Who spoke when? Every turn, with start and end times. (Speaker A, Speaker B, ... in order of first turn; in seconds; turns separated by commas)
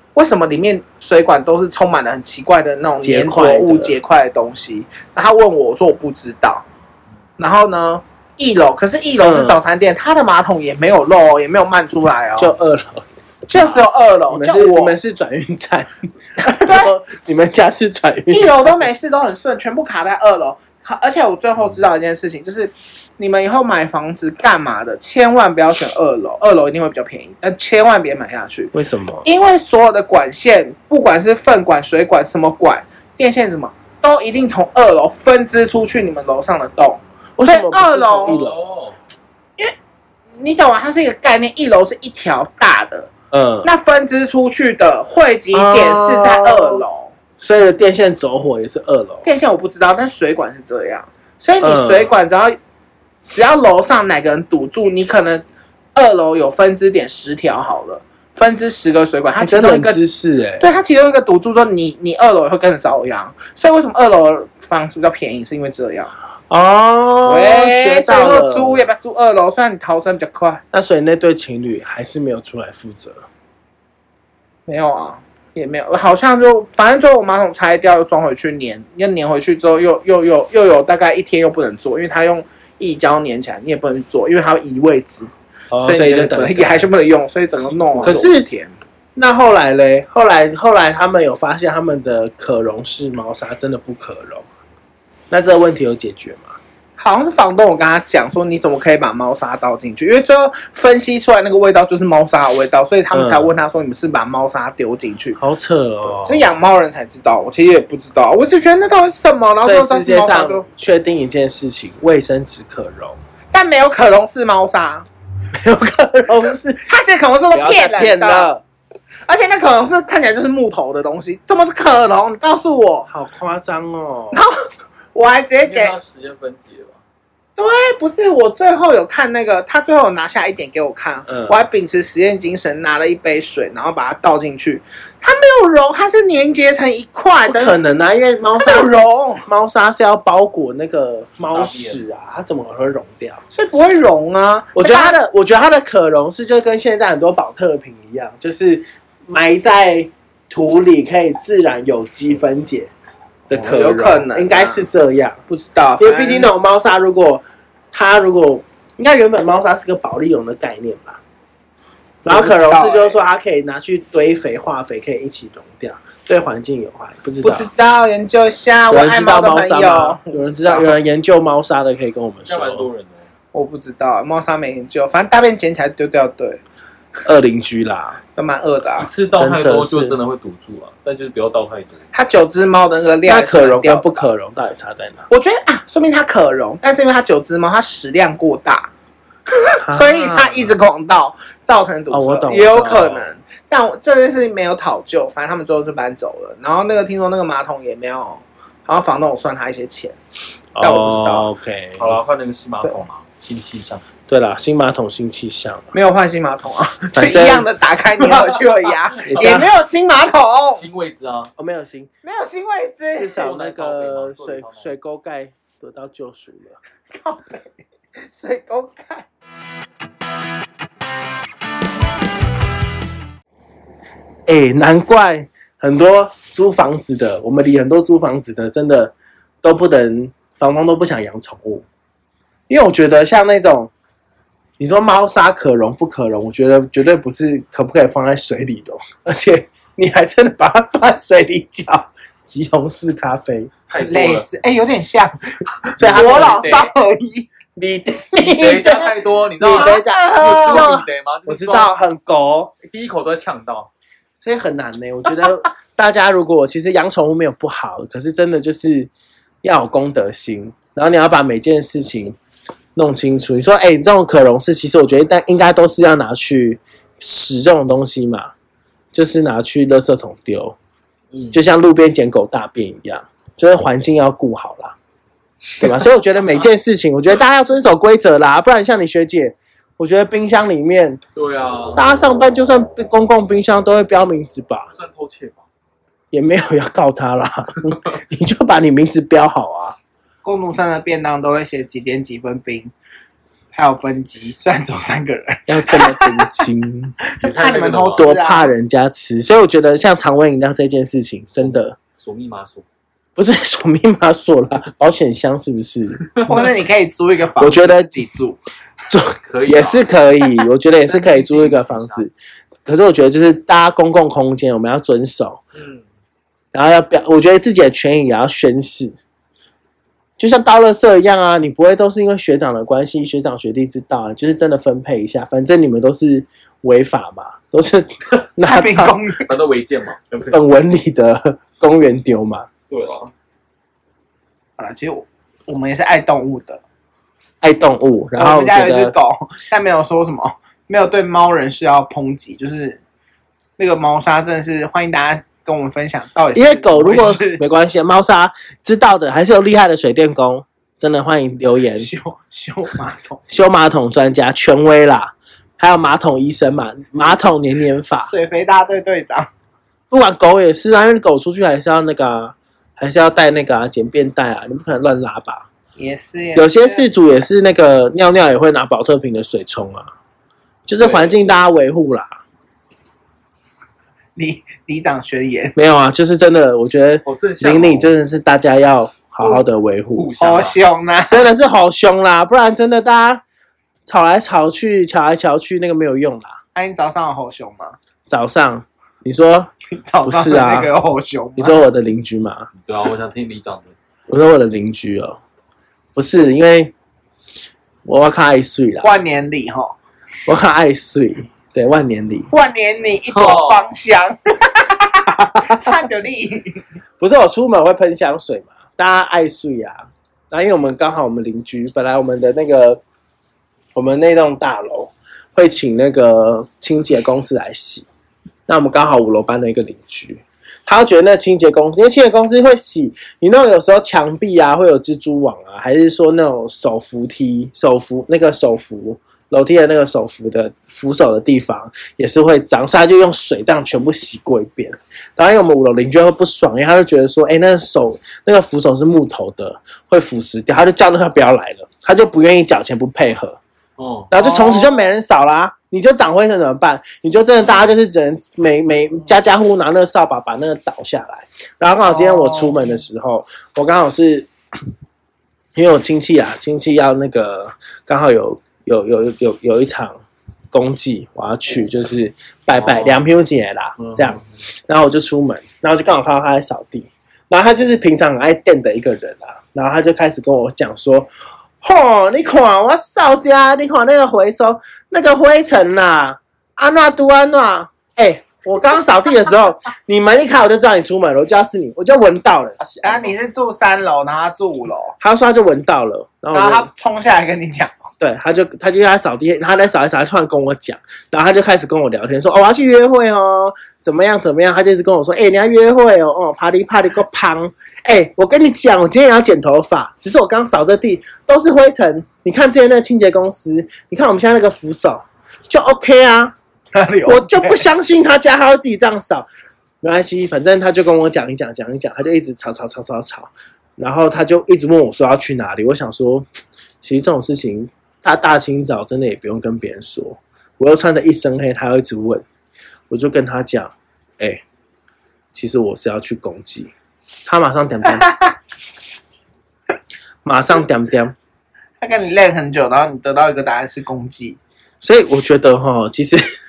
Speaker A: 0.1-6.6, Speaker B: 3.0-4.0, Speaker A: 7.4-12.5, Speaker B: 9.2-9.6, Speaker B: 12.4-13.7, Speaker A: 13.5-14.9, Speaker B: 14.3-18.9, Speaker A: 16.4-16.9, Speaker A: 18.3-38.4, Speaker B: 28.7-29.2, Speaker B: 37.4-38.6, Speaker C: 38.2-39.0, Speaker A: 40.4-43.1, Speaker B: 43.3-43.7, Speaker A: 43.6-47.1, Speaker B: 45.5-46.8, Speaker B: 47.4-49.2, Speaker A: 49.2-52.6, Speaker B: 51.6-52.1, Speaker A: 53.3-55.4, Speaker A: 55.9-60.0, Speaker B: 59.4-60.7, Speaker A: 60.6-66.1, Speaker B: 66.5-68.8, Speaker A: 67.2-70.6, Speaker B: 70.7-73.2, Speaker A: 74.7-88.7, Speaker B: 85.7-86.9, Speaker B: 88.0-88.4, Speaker B: 89.2-94.5, Speaker B: 95.3-96.6, Speaker A: 97.0-105.4, Speaker B: 103.1-103.5, Speaker B: 105.3-106.5, Speaker A: 106.2-110.6, Speaker B: 109.6-113.2, Speaker A: 113.5-115.1, Speaker B: 115.5-116.9, Speaker A: 116.9-118.5, Speaker B: 117.5-118.6, Speaker A: 119.3-123.1, Speaker B: 123.1-124.4, Speaker A: 124.3-124.6, Speaker A: 125.1-125.9, Speaker C: 125.6-127.0, Speaker A: 127.6-137.8, Speaker B: 131.3-131.6, Speaker B: 137.4-143.4, Speaker A: 138.6-139.5, Speaker C: 141.5-142.0, Speaker A: 143.5-145.2, Speaker B: 144.7-152.9, Speaker B: 153.5-155.4, Speaker A: 153.5-154.9, Speaker A: 155.5-156.5, Speaker B: 156.0-161.2, Speaker B: 162.2-167.7, Speaker A: 162.2-163.2, Speaker A: 167.4-170.9, Speaker B: 168.9-172.9, Speaker C: 172.5-173.2, Speaker A: 173.5-176.6, Speaker B: 177.2-178.2, Speaker A: 178.3-179.1, Speaker C: 179.0-182.0, Speaker B: 179.3-180.2, Speaker A: 182.1-184.2, Speaker B: 183.2-185.3, Speaker A: 185.3-188.9, Speaker A: 189.5-200.2, Speaker B: 189.8-190.7, Speaker B: 192.1-193.3, Speaker B: 200.7-202.2, Speaker A: 200.8-201.5, Speaker C: 202.0-204.0, Speaker B: 204.3-205.9, Speaker A: 205.9-210.8, Speaker B: 207.2-207.7, Speaker C: 209.1-209.5, Speaker B: 209.2-209.7, Speaker C: 210.8-211.5, Speaker B: 211.6-212.1, Speaker A: 212.2-213.6, Speaker B: 213.2-216.8, Speaker C: 213.3-214.9, Speaker A: 217.1-217.7, Speaker A: 218.2-219.2, Speaker B: 224.5-231.8, Speaker B: 232.7-233.9, Speaker B: 234.8-243.7, Speaker C: 243.9-244.4, Speaker A: 244.0-247.5, Speaker B: 246.0-246.8, Speaker C: 246.1-246.9, Speaker B: 247.8-252.7, Speaker C: 248.4-251.9, Speaker A: 248.8-249.1, Speaker A: 249.7-250.9, Speaker C: 252.8-253.9, Speaker B: 254.4-259.1, Speaker B: 259.6-262.4, Speaker B: 262.9-268.5, Speaker B: 269.1-270.8, Speaker C: 271.3-271.6, Speaker B: 271.5-274.9, Speaker B: 275.8-281.2, Speaker C: 281.4-282.0, Speaker B: 281.9-284.9, Speaker C: 284.9-285.7, Speaker B: 286.3-289.9, Speaker A: 290.4-292.9, Speaker A: 293.7-296.6, Speaker B: 295.7-297.2, Speaker A: 297.3-298.7, Speaker C: 297.4-298.3, Speaker B: 298.2-301.9, Speaker C: 301.6-302.8, Speaker B: 303.4-306.3, Speaker A: 306.5-308.6, Speaker B: 307.6-308.1, Speaker B: 309.1-312.3, Speaker C: 309.4-310.1, Speaker C: 311.1-312.2, Speaker B: 312.9-315.6, Speaker C: 315.8-316.0, Speaker B: 316.7-319.2, Speaker B: 320.4-329.2, Speaker A: 328.6-329.5, Speaker C: 329.4-330.6, Speaker B: 330.5-332.7, Speaker C: 332.9-333.3, Speaker A: 334.8-336.8, Speaker B: 337.6-339.1, Speaker A: 338.4-343.0, Speaker A: 343.8-347.6, Speaker B: 346.5-352.1, Speaker A: 351.9-353.4, Speaker B: 353.5-358.3, Speaker A: 358.2-359.5, Speaker B: 360.1-365.7, Speaker A: 366.0-367.1, Speaker B: 366.5-370.1, Speaker B: 370.9-372.4, Speaker C: 371.0-371.4, Speaker A: 374.4-375.7, Speaker B: 375.7-380.3, Speaker C: 377.2-378.1, Speaker C: 380.1-380.8, Speaker A: 380.4-381.5, Speaker B: 381.3-383.4, Speaker B: 384.1-386.6, Speaker A: 386.7-388.0, Speaker B: 388.3-389.7, Speaker A: 389.9-391.8, Speaker B: 390.2-390.9, Speaker B: 391.6-392.7, Speaker C: 392.8-393.9, Speaker B: 394.3-395.4, Speaker B: 396.1-396.9, Speaker B: 398.0-399.1, Speaker A: 399.0-399.9, Speaker B: 400.4-402.5, Speaker A: 402.5-406.8, Speaker C: 403.3-403.9, Speaker B: 405.5-405.9, Speaker B: 407.2-413.0, Speaker B: 413.9-418.1, Speaker B: 418.7-443.6, Speaker C: 444.0-444.3, Speaker B: 444.3-454.5, Speaker A: 444.3-445.1, Speaker A: 452.1-452.9, Speaker B: 455.7-460.2, Speaker B: 460.7-471.3, Speaker C: 462.8-463.2, Speaker C: 464.0-464.4, Speaker B: 471.8-482.8, Speaker C: 482.8-483.3, Speaker A: 483.0-485.1, Speaker B: 485.2-486.9, Speaker A: 486.5-488.1, Speaker B: 488.2-506.5, Speaker A: 506.9-507.9, Speaker B: 507.2-509.5, Speaker B: 510.0-516.5, Speaker B: 517.0-522.4, Speaker B: 523.1-524.6, Speaker B: 525.5-526.9, Speaker B: 527.5-528.3, Speaker B: 530.4-531.3, Speaker A: 532.0-534.6, Speaker B: 535.0-536.5